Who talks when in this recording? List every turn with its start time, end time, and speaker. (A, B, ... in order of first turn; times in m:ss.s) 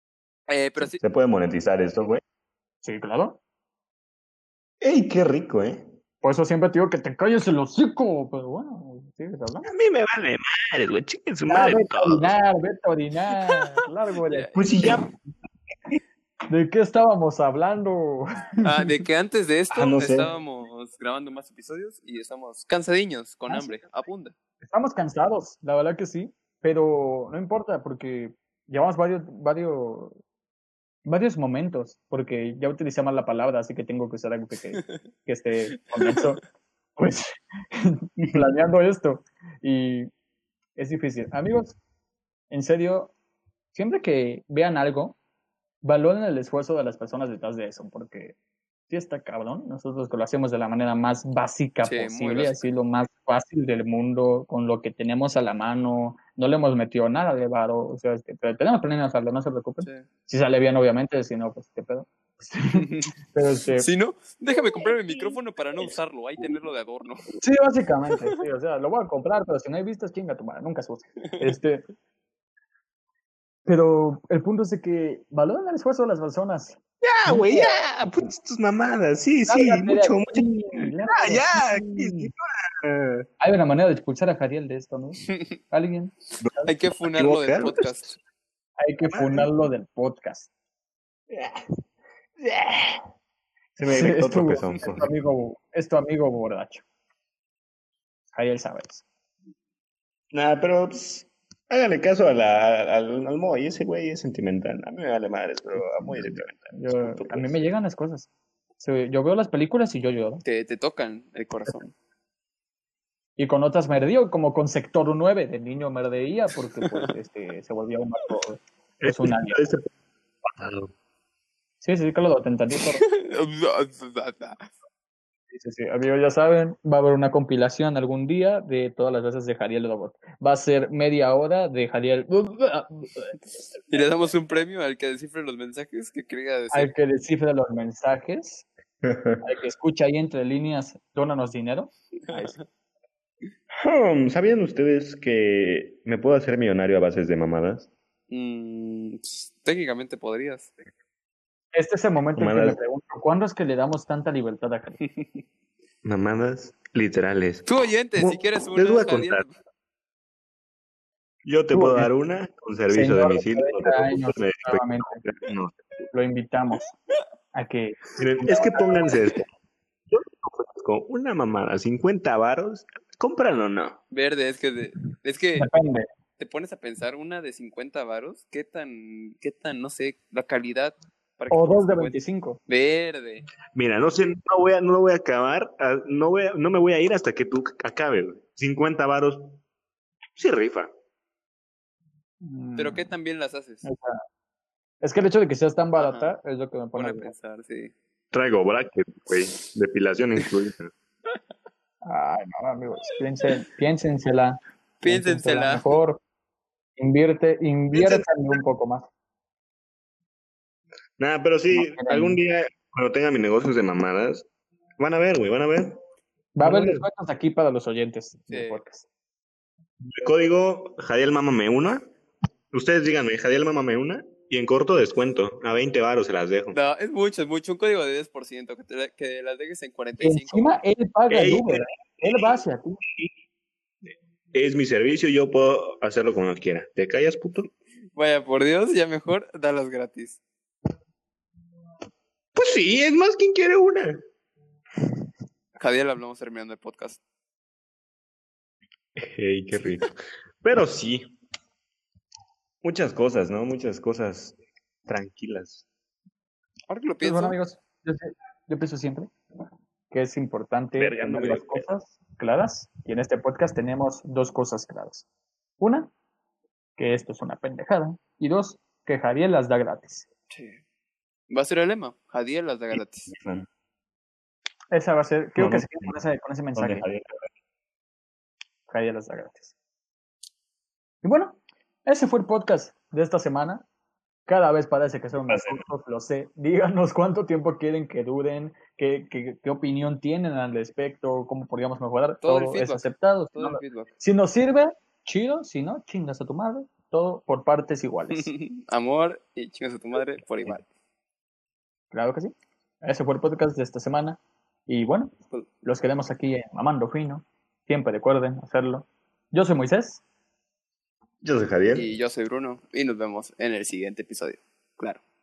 0:00.5-0:01.0 A
0:01.0-0:02.2 B
0:02.8-0:03.4 C
0:04.8-0:05.9 B
0:06.2-0:09.7 C
0:09.6-0:12.3 B
0:11.5-0:14.5 C
0:14.3-0:15.0 A
0:14.5-0:15.1 B
0:16.5-0:18.9 C
0:18.6-0:24.4 A
0:19.7-0:20.3 B
0:24.6-0:30.2 C
0:31.1-0:36.4 C
0:35.9-0:36.4 A
0:37.0-0:40.1 C
0:40.8-0:41.8 C
0:42.5-0:43.1 C
0:43.7-0:45.2 C
0:45.8-0:48.4 C
0:48.9-1:03.9 C
0:51.8-0:52.7 A
1:02.7-1:03.1 A
1:03.8-1:07.3 A
1:07.4-1:11.9 C
1:13.7-1:17.8 C
1:17.0-1:23.3 B
1:19.5-1:22.3 C
1:23.4-1:26.1 C
1:26.4-1:28.0 B
1:26.6-1:28.2 A
1:28.8-1:30.5 C
1:29.1-1:29.5 B
1:31.3-1:31.6 B
1:32.4-1:33.0 B
1:33.8-1:35.1 B
1:33.9-1:36.8 C
1:38.3-1:39.0 C
1:40.3-1:47.6 B
1:45.8-1:50.4 C
1:50.4-1:51.9 A
1:53.4-1:59.6 C
1:59.0-1:59.9 B
2:00.4-2:00.9 B
2:01.8-2:03.0 C
2:02.8-2:04.7 A
2:05.5-2:13.4 C
2:13.9-2:16.9 A
2:16.7-2:18.7 C
2:19.0-2:19.4 B
2:19.4-2:22.6 C
2:22.3-2:22.6 A
2:23.8-2:27.9 B
2:28.3-2:30.7 A
2:31.7-2:35.0 C
2:32.4-2:32.8 B
2:36.0-2:39.4 B
2:37.7-2:39.5 A
2:41.4-2:45.9 B
2:41.7-2:42.1 C
2:42.9-2:45.2 C
2:46.1-2:46.9 C
2:47.5-2:48.8 C
2:48.2-2:49.5 B
2:50.1-2:54.0 B
2:54.1-2:55.7 A
2:55.6-2:56.1 C
2:56.4-3:03.5 A
3:01.5-3:02.6 C
3:03.7-3:09.6 B
3:10.4-3:10.9 B
3:12.4-3:13.1 C
3:12.8-3:13.9 A
3:13.8-3:14.2 C
3:15.0-3:17.3 C
3:16.0-3:16.3 A
3:17.0-3:17.9 A
3:18.3-3:20.9 B
3:22.0-3:26.2 C
3:25.0-3:25.9 A
3:27.0-3:29.1 C
3:27.9-3:28.2 B
3:31.2-3:34.5 B
3:31.7-3:32.4 C
3:35.0-3:36.0 B
3:36.6-3:39.1 C
3:36.6-3:37.0 B
3:38.5-3:38.8 A
3:40.0-3:42.0 B
3:42.7-3:46.8 B
3:46.7-3:50.8 A
3:50.2-3:53.0 C
3:51.3-3:52.6 B
3:54.5-3:57.7 B
3:58.2-4:00.4 A
4:02.6-4:04.2 B
4:05.8-4:07.2 A
4:09.2-4:11.3 B
4:12.8-4:15.9 B
4:16.9-4:17.6 A
4:17.2-4:19.3 C
4:20.1-4:25.3 C
4:21.0-4:21.9 B
4:25.8-4:26.1 C
4:27.0-4:30.3 C
4:30.5-4:30.8 A
4:31.5-4:33.3 A
4:32.9-4:33.7 B
4:34.9-4:37.0 C
4:35.6-4:36.1 B
4:36.8-4:37.5 B
4:38.9-4:39.8 C
4:41.2-4:43.8 C
4:44.5-4:58.5 C
4:45.5-4:45.8 B
4:52.4-4:54.2 A
4:58.3-5:00.8 A
5:02.1-5:10.2 C
5:11.4-5:12.1 B
5:11.9-5:15.2 A